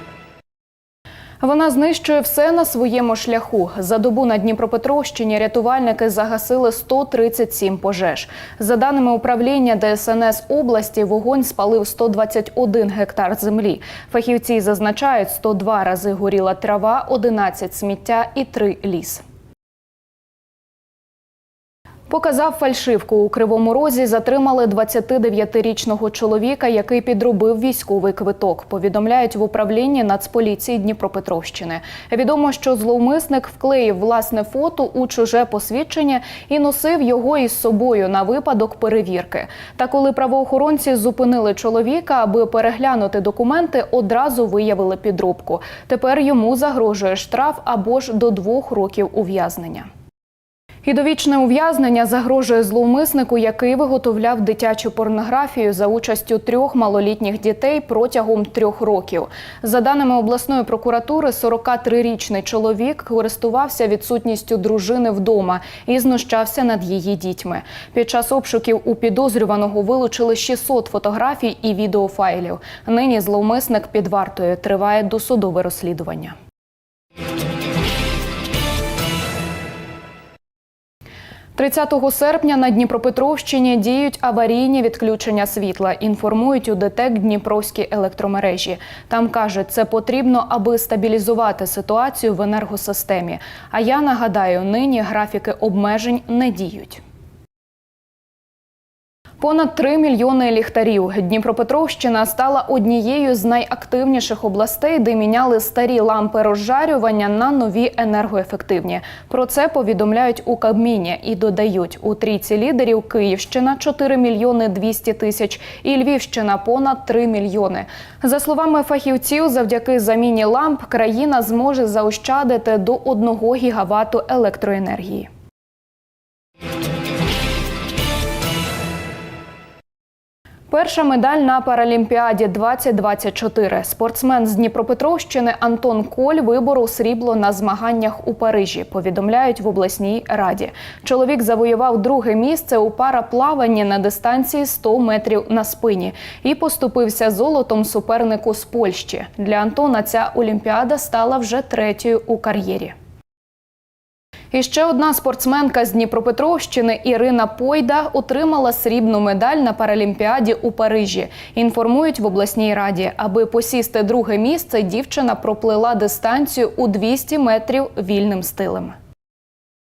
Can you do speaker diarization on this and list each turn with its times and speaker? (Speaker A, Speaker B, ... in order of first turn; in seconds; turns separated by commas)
Speaker A: 1.4-19.2, Speaker A: 22.1-49.9, Speaker A: 50.8-76.3, Speaker A: 81.5-97.0, Speaker A: 99.4-125.3, Speaker A: 130.7-152.9, Speaker A: 154.5-168.9